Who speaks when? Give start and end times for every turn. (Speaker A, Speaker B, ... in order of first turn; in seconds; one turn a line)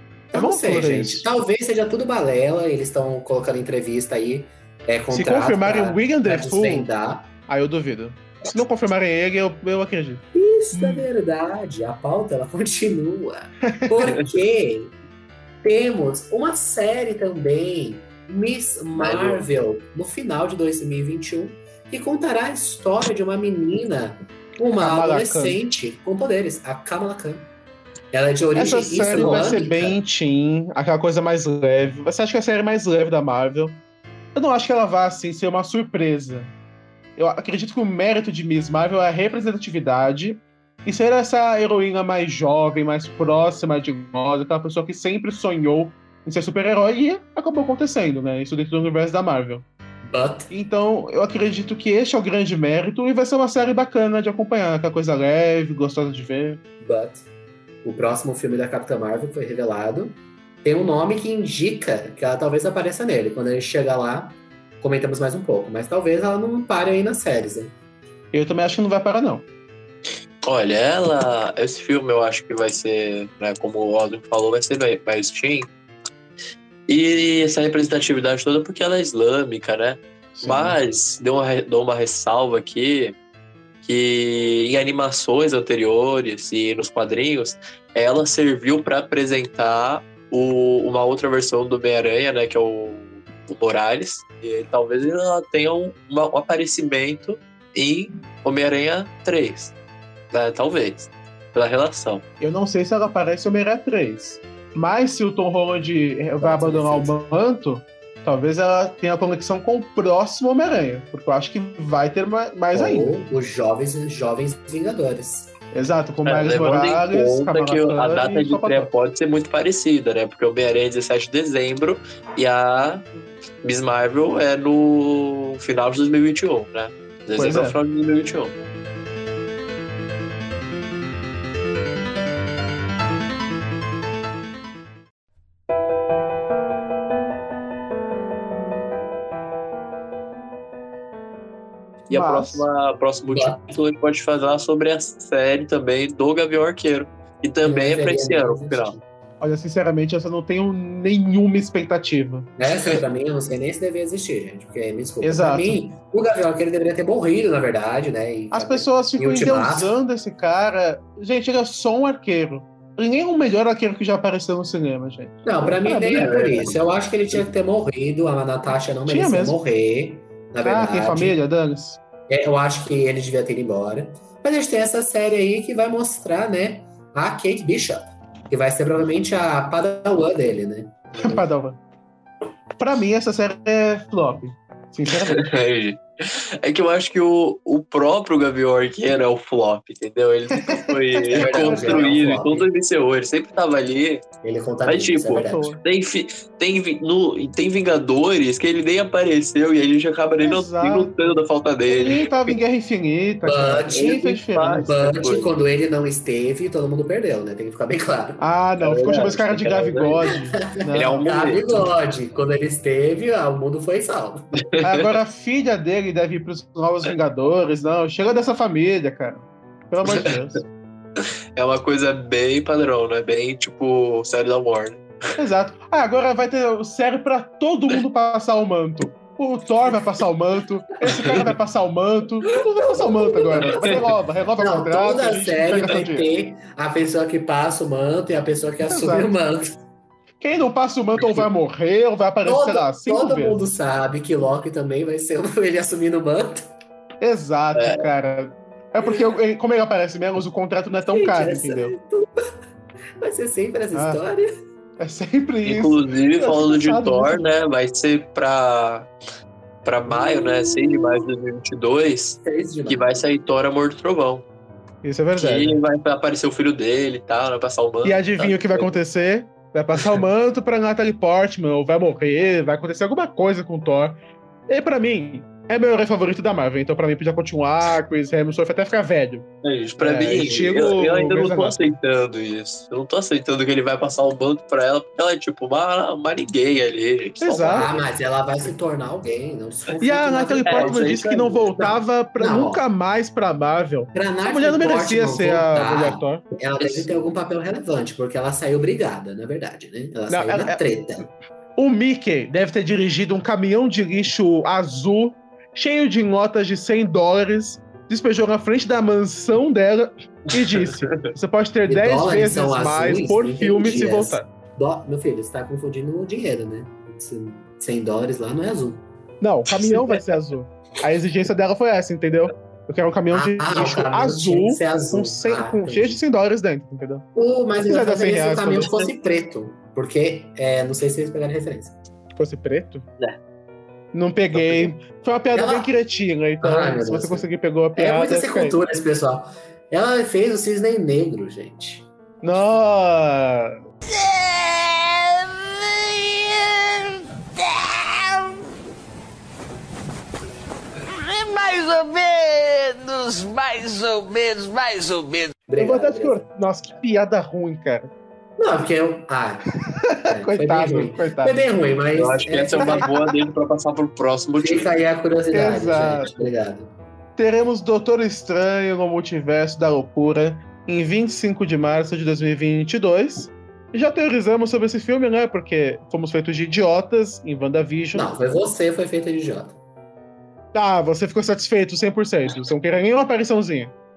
Speaker A: 0.3-7.3
Speaker B: 0.3-1.3
Speaker B: 5.1-6.9
Speaker B: 7.5-11.1
Speaker A: 10.3-14.9
Speaker A: 15.6-27.5
Speaker C: 19.0-19.5
Speaker B: 24.8-25.6
Speaker A: 28.1-30.0
Speaker B: 28.5-33.8
Speaker B: 34.3-36.5
Speaker B: 37.1-49.6
Speaker A: 50.0-50.5
Speaker B: 50.5-56.6
Speaker A: 56.8-57.2
Speaker A: 57.8-67.7
Speaker B: 68.3-69.5
Speaker C: 70.4-75.7
Speaker C: 76.9-83.2
Speaker B: 80.3-80.8
Speaker C: 83.8-99.7
Speaker C: 100.3-102.2
Speaker B: 102.4-113.2
Speaker A: 106.4-107.2
Speaker A: 112.7-115.5
Speaker B: 115.7-118.9
Speaker C: 116.2-123.0
Speaker C: 123.6-128.5
Speaker B: 127.3-127.8
Speaker C: 142.1-148.9
Speaker B: 142.1-142.6
Speaker A: 143.3-143.6
Speaker A: 147.6-149.0
Speaker B: 149.4-152.5
Speaker A: 152.6-160.0
Speaker B: 155.2-155.8
Speaker B: 158.5-166.5
Speaker A: 165.4-171.4
Speaker C: 166.1-166.7
Speaker B: 169.1-169.6
Speaker B: 170.6-172.0
Speaker A: 172.3-181.4
Speaker B: 181.2-181.8
Speaker B: 182.8-185.4
Speaker C: 185.3-194.2
Speaker B: 190.7-192.1
Speaker A: 191.3-192.7
Speaker A: 194.4-195.8
Speaker C: 194.8-202.5
Speaker B: 195.4-195.8
Speaker B: 200.4-201.1
Speaker B: 201.9-204.9
Speaker A: 203.4-208.4
Speaker C: 203.9-205.5
Speaker B: 208.4-211.3
Speaker C: 208.8-210.3
Speaker C: 210.9-211.9
Speaker A: 211.2-214.6
Speaker C: 214.6-215.1
Speaker B: 214.8-220.6
Speaker C: 221.5-225.0
Speaker B: 225.4-236.3
Speaker C: 231.1-231.4
Speaker A: 232.8-234.1
Speaker A: 234.6-239.8
Speaker B: 238.9-239.3
Speaker B: 240.4-243.6
Speaker A: 242.4-246.7
Speaker B: 247.2-251.9
Speaker C: 247.8-248.1
Speaker A: 251.1-252.3
Speaker A: 253.2-254.5
Speaker B: 253.9-254.2
Speaker B: 255.0-257.5
Speaker C: 255.6-259.1
Speaker C: 259.8-264.4
Speaker A: 260.2-261.1
Speaker A: 262.4-263.2
Speaker B: 265.0-265.8
Speaker C: 265.3-269.0
Speaker B: 268.0-279.4
Speaker C: 279.6-287.9
Speaker B: 280.0-281.9
Speaker A: 280.4-280.9
Speaker B: 287.4-287.9
Speaker A: 287.7-291.2
Speaker B: 290.0-297.1
Speaker C: 290.6-291.7
Speaker A: 291.8-292.8
Speaker A: 294.1-301.3
Speaker B: 300.3-300.8
Speaker B: 301.8-314.5
Speaker A: 311.9-319.0
Speaker B: 319.4-327.2
Speaker C: 319.8-320.1
Speaker A: 323.3-326.2
Speaker A: 327.3-332.0
Speaker B: 327.8-328.9
Speaker C: 328.8-329.1
Speaker B: 332.4-333.0
Speaker B: 334.1-338.8
Speaker A: 335.5-335.9
Speaker A: 336.6-342.1
Speaker B: 342.4-343.8
Speaker D: 344.1-348.6
Speaker D: 351.0-355.6
Speaker A: 355.7-356.5
Speaker B: 355.8-358.1
Speaker A: 358.6-359.6
Speaker B: 360.0-361.7
Speaker A: 360.2-363.1
Speaker C: 362.1-364.9
Speaker B: 362.8-363.2
Speaker A: 364.6-366.9
Speaker B: 365.5-366.4
Speaker B: 367.4-378.3
Speaker A: 378.1-379.8
Speaker B: 380.7-383.9